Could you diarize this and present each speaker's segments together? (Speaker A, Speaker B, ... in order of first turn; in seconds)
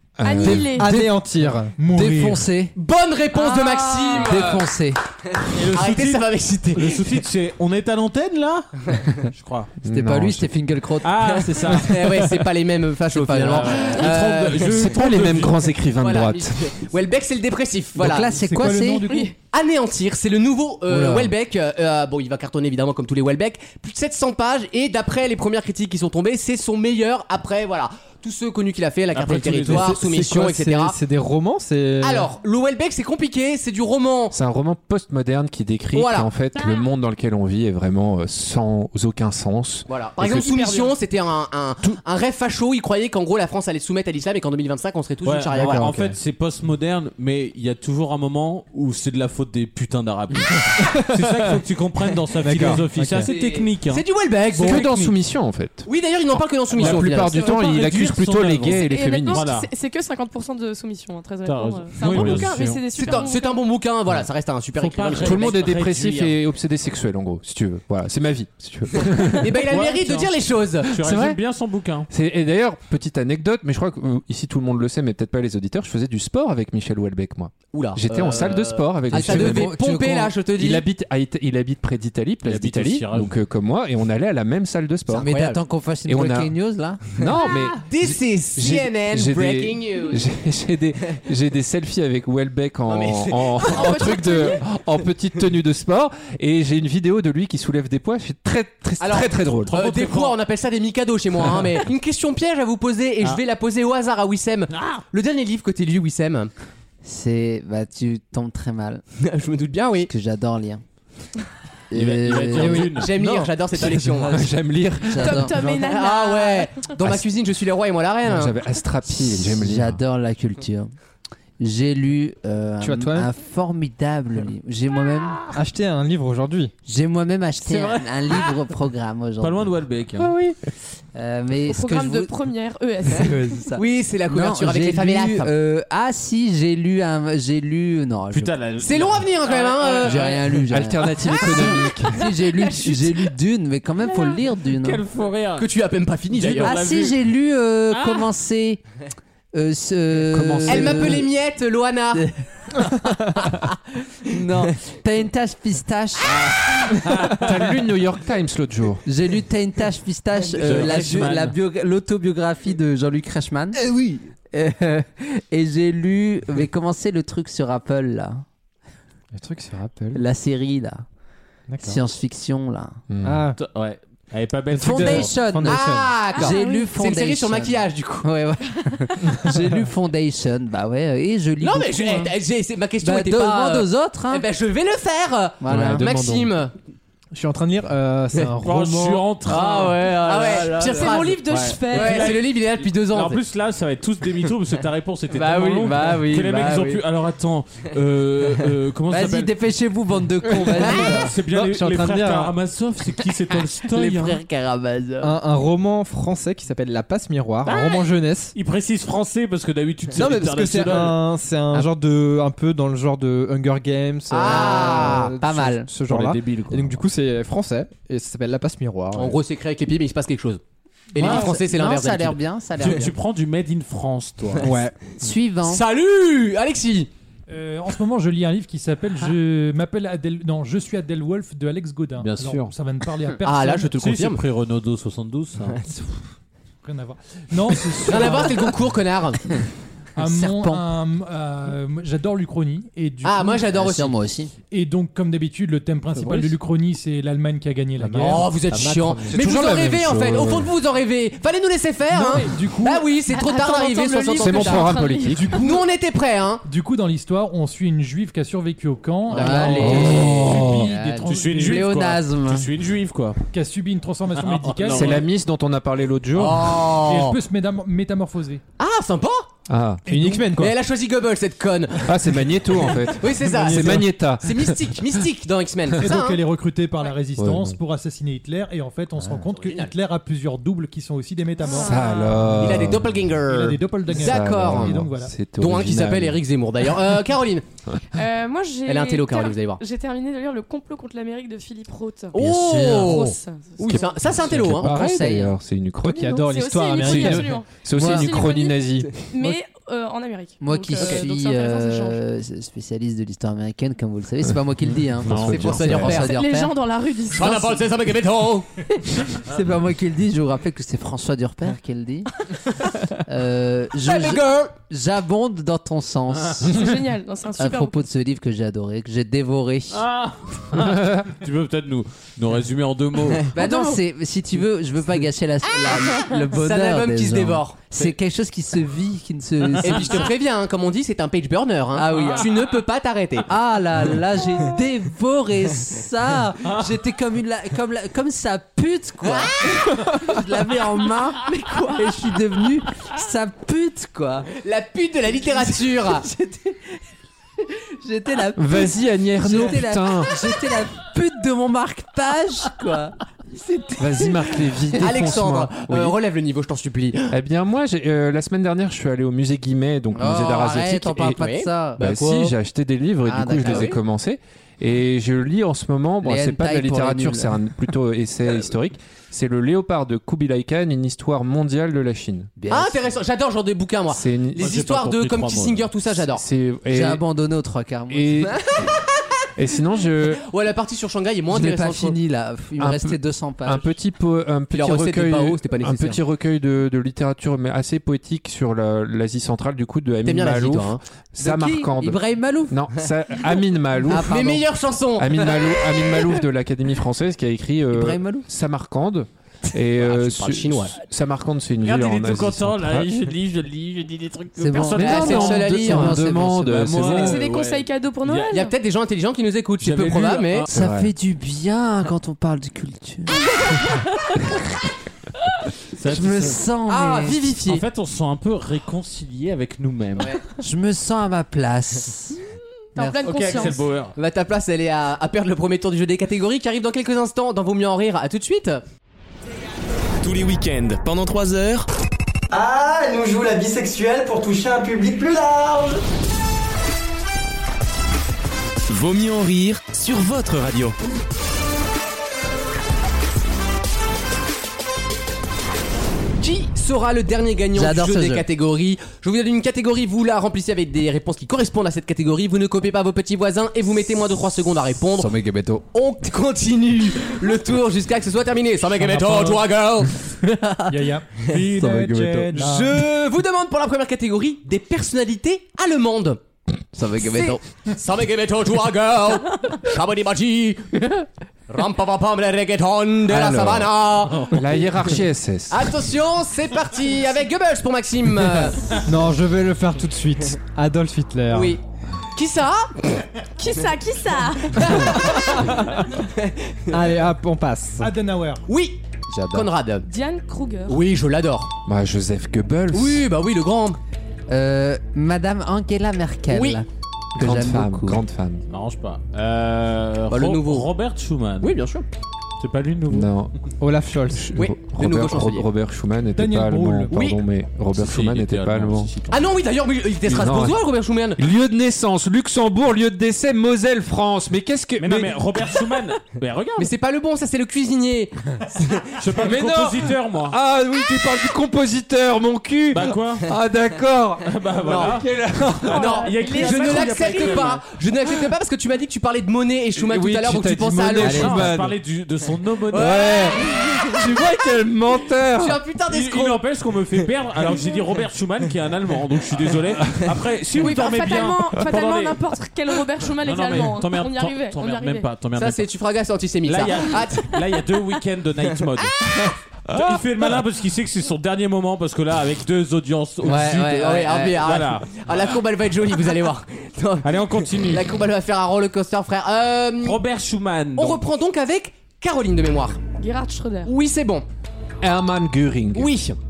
Speaker A: 0.2-0.9, 9.8-10.5, 14.6-16.7, 34.3-40.5, 45.6-46.0, 54.6-59.5, 62.2-62.4, 65.2-69.6, 70.9-71.4, 72.1-79.8, 80.6-85.3, 86.1-86.5, 87.0-99.7, 114.2-115.5, 117.0-117.3, 118.2-120.0, 140.7-142.1, 150.3-151.3, 157.3-159.0, 173.1-173.5, 185.7-186.5, 249.3-250.7, 254.4-255.6, 259.8-260.8, 264.9-266.8, 269.7-270.7, 272.0-275.2, 277.4-277.8, 281.8-283.2, 284.1-286.4, 292.6-292.9, 293.9-299.2, 305.2-306.2, 320.7-321.2, 348.6-350.4, 354.0-356.2, 357.3-361.4, 362.0-372.5, 374.1-374.8, 376.2-377.2, 378.1-378.7, 379.6-380.4, 382.8-394.6, 395.2-403.1, 404.7-407.4, 410.7-411.1, 474.5-476.0, 491.9-493.3, 497.4-498.6, 503.1-503.6, 504.3-509.1, 510.2-510.8, 511.4-515.4, 519.4-526.1, 530.0-532.0, 532.9-535.8, 549.9-550.3, 565.0-566.1
Speaker B: 0.2-0.9, 3.3-4.3, 19.1-19.3, 40.4-41.0, 57.2-57.6, 58.6-63.6, 93.9-94.6, 115.2-116.9, 131.7-133.6, 139.7-140.1, 141.4-141.9, 176.3-176.9, 190.9-192.4, 253.3-255.6, 281.6-282.5, 288.1-294.0, 296.4-302.2, 306.1-307.6, 316.6-318.0, 323.6-324.0, 407.1-408.7, 422.9-423.9, 483.6-484.9, 490.1-491.0, 525.9-527.8, 540.8-545.3, 563.2-563.9
Speaker C: 0.6-1.8, 29.6-32.3, 50.8-51.4, 52.4-53.3, 112.6-112.9, 122.8-123.3, 125.5-126.7, 163.7-164.3, 169.3-170.2, 171.7-172.0, 173.2-173.6, 174.7-176.2, 187.3-189.3, 200.5-202.5, 205.2-208.5, 210.2-219.4, 224.6-224.9, 248.0-249.4, 270.1-270.6, 296.0-297.6, 479.1-481.8, 485.6-485.9, 486.9-488.1, 503.8-504.5
Speaker D: 0.9-1.2, 1.8-2.5, 18.2-19.3, 227.5-233.9, 236.8-238.8, 240.2-243.7, 244.7-248.5, 252.1-253.2, 255.3-255.8, 256.6-261.9, 263.5-265.2, 266.9-268.6, 276.0-282.0, 283.5-285.4, 458.9-459.6, 460.9-463.0, 488.0-488.7, 506.4-507.2
Speaker E: 1.9-2.8, 4.1-5.0, 9.9-11.7, 13.1-14.0, 18.0-19.0, 20.9-21.3, 79.1-80.3, 85.2-87.0, 107.0-109.0, 110.0-110.8, 111.9-113.4, 115.1-115.5, 119.4-120.9, 121.6-125.5, 126.8-129.7, 131.2-132.3, 133.2-138.5, 140.0-145.0, 146.6-148.8, 149.5-151.3, 152.2-153.7, 154.2-156.4, 159.0-163.8, 164.5-168.4, 170.1-171.0, 171.8-173.0, 174.8-182.3, 183.0-184.4, 185.6-186.1, 189.5-191.3, 195.3-197.0, 199.1-201.3, 203.8-205.4, 214.4-215.9, 221.2-223.1, 225.2-225.8, 240.2-240.8, 243.7-244.5, 259.3-262.7, 292.4-293.3, 294.5-295.5, 297.9-298.3, 300.6-306.8, 307.4-307.9, 309.2-312.3, 313.2-316.8, 317.6-320.0, 323.5-330.3, 331.9-332.5, 333.5-344.5, 346.1-347.0, 348.0-354.3, 360.1-362.1, 363.2-363.9, 366.2-367.6, 372.6-373.1, 376.9-378.5, 381.5-383.9, 391.4-392.8, 394.1-394.6, 397.9-398.5, 404.6-407.2, 410.7-413.5, 416.1-417.4, 420.6-422.4, 423.0-423.2, 447.8-448.4, 455.2-455.9, 460.4-460.9, 461.8-462.5, 466.9-467.6, 473.3-473.9, 489.3-489.7, 494.5-498.2, 553.4-554.6
Speaker F: 2.8-4.7, 5.4-7.1, 11.7-15.0, 16.0-18.3, 19.4-31.0, 32.0-34.4, 35.9-36.3, 39.9-45.9, 53.2-54.9, 55.9-57.5, 62.0-65.7, 69.3-70.9, 77.7-80.8, 85.1-85.6, 87.2-90.3, 92.9-94.7, 99.0-106.5, 109.2-110.1, 112.9-114.5, 115.6-118.5, 133.8-135.5, 138.8-140.6, 141.3-141.9, 142.6-143.1, 145.6-146.7, 150.7-152.2, 175.7-178.3, 181.6-186.7, 189.6-193.4, 195.8-196.1, 214.3-215.3, 219.1-220.6, 221.1-223.0, 225.6-227.1, 233.4-234.4, 238.1-239.6, 243.2-244.2, 248.2-254.9, 255.6-256.6, 259.3-260.2, 266.3-267.4, 268.8-269.5, 270.5-276.4, 279.5-279.9, 282.5-287.6, 288.9-289.8, 292.3-295.1, 301.0-301.2, 305.5-306.4, 307.3-308.7, 314.0-314.7, 325.9-327.8, 329.8-333.5, 339.2-339.9, 344.6-346.2, 355.0-357.3, 361.2-362.5, 363.6-364.0, 372.7-376.4, 380.4-382.2, 384.7-386.2, 390.2-391.0, 394.1-396.4, 399.9-401.0, 405.0-406.2, 408.5-410.7, 416.9-417.9, 424.1-428.8, 446.4-455.3, 455.9-460.2, 462.5-466.4, 467.9-474.6, 475.7-479.0, 481.5-481.8, 482.4-483.2, 484.7-487.1, 488.7-489.0, 489.5-490.1, 490.9-491.7, 492.9-494.0, 496.5-496.8, 500.3-500.9, 501.6-502.1, 504.6-505.7, 507.1-507.4, 509.3-511.4, 516.8-519.2, 524.8-525.3, 525.9-531.7, 532.9-533.8, 535.6-536.6, 545.5-547.8, 553.6-560.2, 561.0-563.0, 563.9-564.5, 565.9-566.4
Speaker G: 5.5-9.7, 11.0-12.5, 14.0-15.6, 29.1-30.0, 45.2-55.1, 56.7-59.7, 61.4-62.8, 64.8-66.3, 69.7-72.1, 82.4-83.3, 99.5-100.4, 104.7-105.0, 111.9-113.1, 127.7-128.5, 129.4-130.3, 138.3-139.6, 144.8-145.7, 146.3-147.2, 147.9-148.3, 156.3-157.6, 160.6-161.6, 173.6-175.3, 188.6-190.2, 191.5-192.4, 193.0-199.5, 200.9-204.4, 207.6-211.2, 216.1-217.0, 221.2-221.5, 222.8-224.7, 232.2-232.7, 234.0-235.8, 246.2-246.5, 260.4-260.7, 261.2-263.4, 264.4-265.2, 305.3-306.1, 319.9-323.5, 329.8-330.2, 332.1-332.4, 374.6-375.9, 401.8-405.5, 406.8-408.6, 409.8-410.7, 416.0-416.6, 417.7-420.4, 423.2-424.1, 498.7-501.8, 502.6-503.3, 508.0-509.4, 515.0-516.9, 519.2-520.6, 522.9-523.5, 524.5-525.3, 526.1-527.8, 531.2-533.3, 536.1-542.4, 543.4-545.9, 546.6-549.3, 549.9-554.0, 554.5-555.2, 557.2-558.1, 560.0-561.2
Speaker H: 430.2-431.9, 438.9-441.0
Speaker I: 432.5-436.0